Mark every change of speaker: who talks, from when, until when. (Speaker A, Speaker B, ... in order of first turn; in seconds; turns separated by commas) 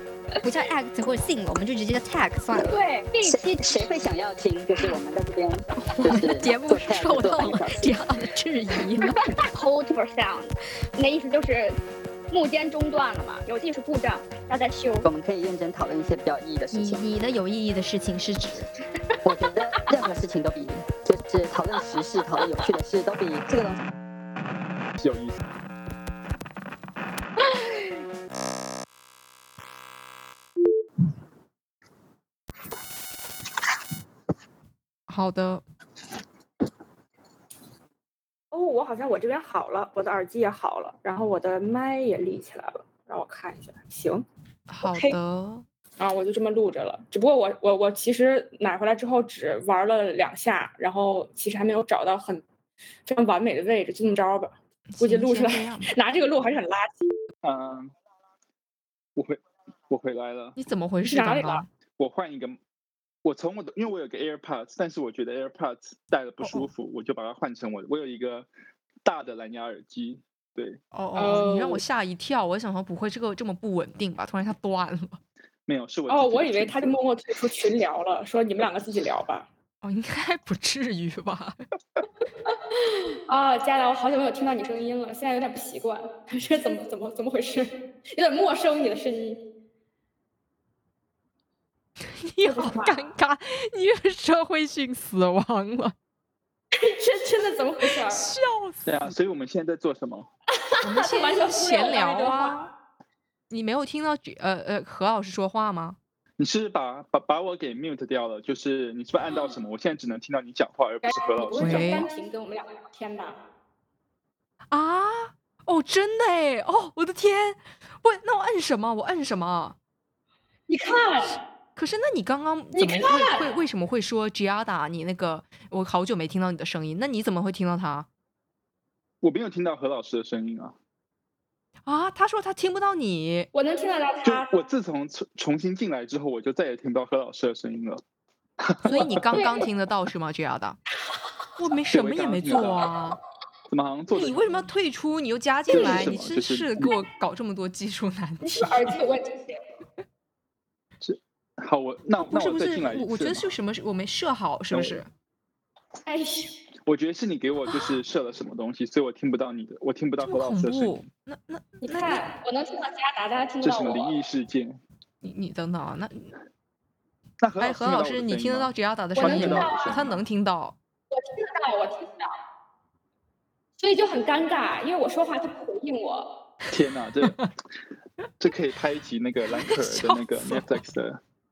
Speaker A: 0.4-2.8, Speaker B: 2.5-8.0, Speaker C: 2.6-3.9, Speaker A: 5.9-9.2, Speaker C: 9.5-11.8, Speaker C: 12.3-15.1, Speaker B: 15.0-17.1, Speaker A: 16.7-18.6, Speaker B: 19.2-23.8, Speaker D: 25.0-25.4, Speaker A: 35.1-35.6, Speaker E: 38.5-44.2, Speaker A: 44.7-45.6, Speaker E: 44.9-45.2, Speaker E: 46.0-52.4, Speaker E: 53.0-57.1, Speaker A: 54.9-55.9, Speaker D: 57.4-57.9, Speaker D: 59.9-60.6, Speaker A: 60.6-61.7, Speaker E: 61.1-61.6, Speaker D: 62.0-62.6, Speaker D: 63.2-68.5, Speaker D: 69.0-70.8, Speaker A: 70.9-75.2, Speaker E: 71.2-71.8, Speaker D: 75.7-77.0, Speaker E: 76.1-79.5, Speaker A: 79.8-81.6, Speaker E: 83.3-89.4, Speaker A: 92.2-95.9, Speaker E: 92.4-93.0, Speaker E: 96.7-98.2, Speaker A: 98.0-99.1, Speaker D: 98.8-100.3, Speaker A: 100.8-102.7, Speaker E: 101.1-102.7, Speaker A: 103.5-106.0, Speaker D: 106.4-112.0, Speaker E: 111.5-113.4, Speaker A: 111.6-112.1, Speaker C: 111.7-112.1, Speaker A: 114.7-119.8, Speaker E: 120.7-121.3, Speaker A: 121.8-128.1, Speaker C: 122.7-123.2, Speaker D: 129.2-130.8, Speaker A: 131.8-133.5, Speaker E: 133.5-134.4, Speaker D: 134.2-138.0, Speaker D: 138.6-139.4, Speaker A: 138.8-140.8, Speaker A: 141.6-143.2, Speaker D: 141.9-142.9, Speaker D: 143.7-144.4, Speaker A: 144.1-148.8, Speaker D: 145.7-146.9, Speaker E: 148.4-149.6, Speaker D: 151.0-153.5, Speaker A: 152.2-155.1, Speaker D: 154.7-155.0, Speaker E: 156.1-156.4, Speaker D: 156.8-161.1, Speaker A: 160.2-162.2, Speaker E: 161.8-164.1, Speaker D: 163.6-164.8, Speaker A: 165.2-166.3, Speaker D: 167.4-170.2, Speaker A: 167.6-170.8, Speaker E: 171.1-172.3, Speaker E: 173.8-176.3, Speaker D: 176.7-177.5, Speaker D: 178.4-181.2, Speaker A: 179.5-180.8